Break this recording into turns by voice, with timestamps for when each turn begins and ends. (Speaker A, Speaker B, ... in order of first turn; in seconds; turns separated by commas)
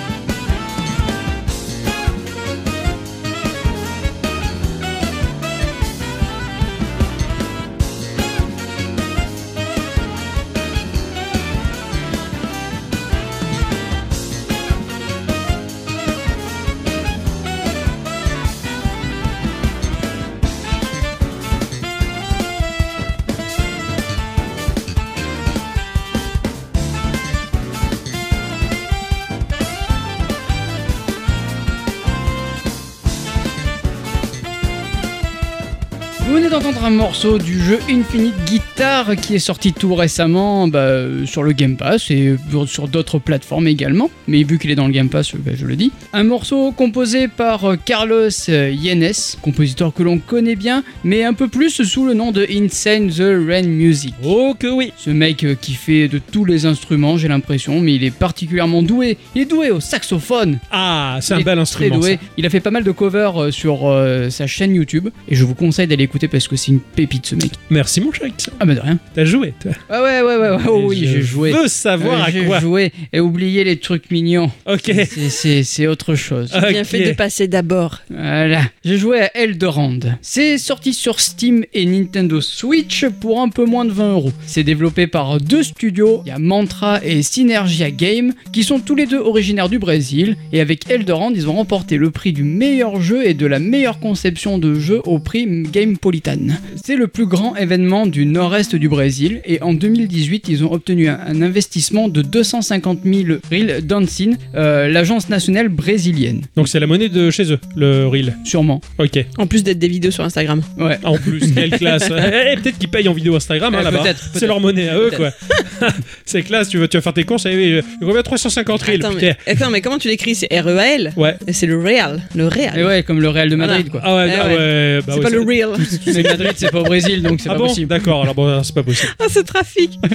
Speaker A: 36.2-54.3, Speaker B: 54.2-55.0, Speaker A: 55.0-60.6, Speaker B: 60.7-62.2, Speaker A: 61.3-67.6, Speaker B: 67.7-68.6, Speaker A: 68.6-69.0, Speaker B: 69.2-69.8, Speaker A: 69.9-76.7, Speaker B: 70.6-72.7, Speaker B: 74.7-75.2, Speaker B: 76.5-77.2, Speaker C: 76.6-78.0, Speaker A: 78.1-106.5, Speaker B: 106.6-108.4, Speaker A: 108.4-108.8, Speaker B: 109.0-109.3, Speaker C: 109.4-110.7, Speaker A: 110.8-111.8, Speaker B: 111.0-119.6, Speaker A: 113.7-115.2, Speaker C: 118.8-122.9, Speaker A: 122.7-124.1, Speaker C: 123.6-126.5, Speaker B: 124.0-126.9, Speaker A: 126.1-128.1, Speaker B: 127.5-129.1, Speaker C: 129.0-130.0